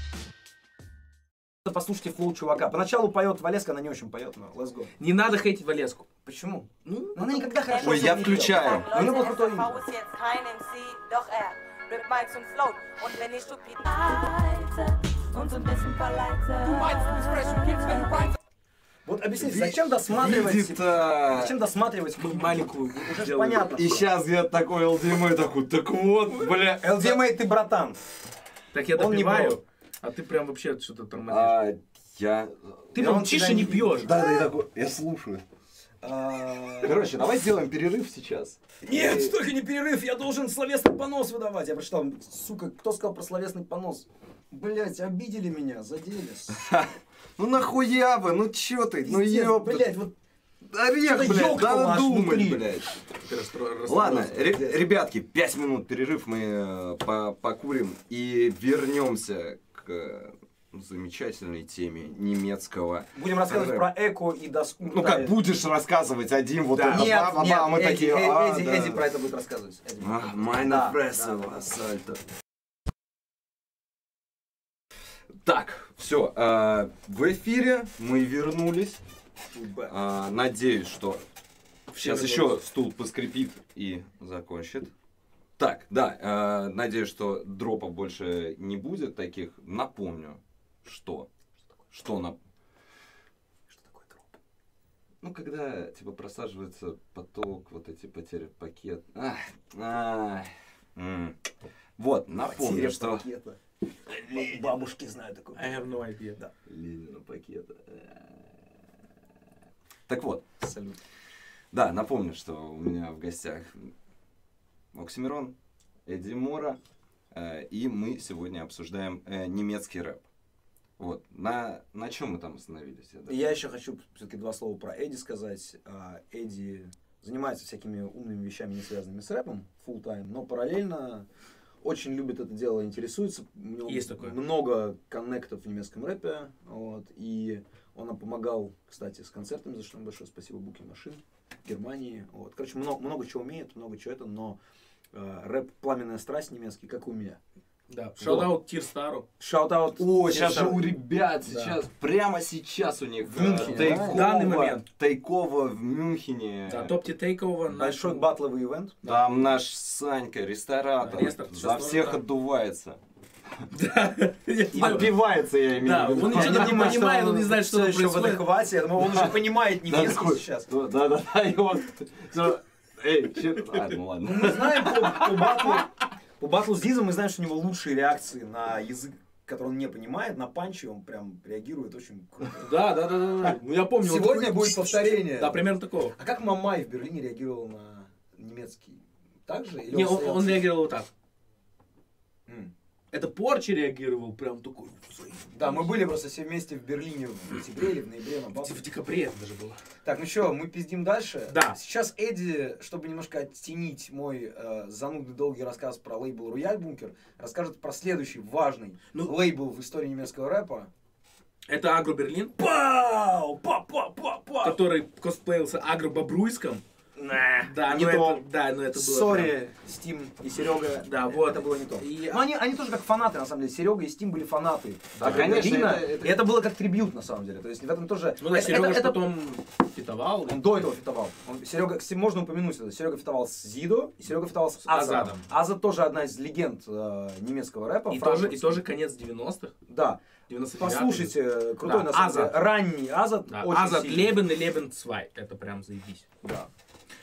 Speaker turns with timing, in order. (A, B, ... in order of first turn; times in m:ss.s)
0:01.6-0:04.9 A
0:05.0-0:06.1 B
0:06.2-0:09.8 A
0:06.8-0:07.4 B
0:07.6-0:18.3 C
0:07.8-0:09.1 D
0:19.0-0:24.0 A
0:19.4-0:21.5 D
0:22.2-0:24.0 B
0:23.7-0:27.2 D
0:26.6-0:28.0 A
0:28.7-0:31.6 B
0:28.9-0:29.6 A
0:31.3-0:35.4 D
0:32.9-0:34.1 B
0:33.0-0:34.4 A
0:36.0-0:37.2 A
0:36.8-0:39.3 D
0:38.8-0:46.6 A
0:46.5-0:50.0 D
0:49.0-0:50.1 A
0:50.7-0:53.0 D
0:51.0-0:52.7 A
0:53.2-0:54.7 B
0:53.9-1:03.9 D
1:03.1-1:05.3 A
1:04.8-1:09.0 D
1:06.7-1:11.6 A
1:10.0-1:12.2 D
1:15.4-1:19.0 D
1:19.5-1:19.9 A
1:19.9-1:21.2 D
1:21.9-1:24.9 D
1:22.0-1:22.5 A
1:25.6-1:31.3 D
1:31.9-1:32.4 D
1:33.7-1:34.4 A
1:35.2-1:41.4 D
1:42.0-1:43.2 D
1:42.4-1:46.5 A
1:45.6-1:46.4 B
1:46.7-1:48.4 D
1:50.1-1:50.5 D
1:50.6-1:51.0 A
1:51.7-1:53.9 D
1:54.9-1:55.5 D
1:56.0-1:56.8 D
1:57.3-2:00.2 D
2:01.0-2:03.5 D
2:03.3-2:11.2 A
2:11.8-2:24.6 A
2:13.8-2:14.4 B
2:25.1-2:27.4 A
2:27.9-2:29.2 B
2:28.2-2:28.5 D
2:29.4-2:30.8 A
2:30.0-2:34.4 D
2:30.3-2:30.8 B
2:31.4-2:31.8 B
2:33.2-2:34.8 A
2:33.6-2:34.8 B
2:34.9-2:36.9 D
2:36.7-2:38.3 B
2:37.7-2:39.0 A
2:39.0-2:39.4 B
2:39.0-2:43.0 D
2:41.0-2:42.2 B
2:43.7-2:45.2 B
2:44.7-2:47.0 D
2:44.8-2:45.1 A
2:45.8-2:48.4 B
2:46.1-2:50.7 A
2:49.0-2:55.8 D
2:54.2-3:02.7 A
3:02.6-3:06.2 B
3:04.0-3:10.6 A
3:09.9-3:11.1 B
3:12.5-3:12.7 A
3:13.1-3:15.9 B
3:15.5-3:18.8 A
3:18.6-3:19.8 B
3:20.0-3:30.9 A
3:21.5-3:21.8 B
3:31.7-3:32.5 B
3:32.6-3:34.8 A
3:34.6-3:36.8 B
3:37.2-3:38.4 A
3:37.6-3:39.5 B
3:38.9-3:49.2 A
3:41.0-3:42.4 B
3:45.1-3:45.7 B
3:45.2-3:46.4 D
3:48.4-3:50.9 B
3:50.5-3:58.7 A
3:54.8-3:55.4 B
3:58.1-3:59.8 B
3:59.9-4:00.2 A
4:00.5-4:02.6 B
4:00.8-4:04.4 A
4:03.5-4:06.3 B
4:06.4-4:06.7 A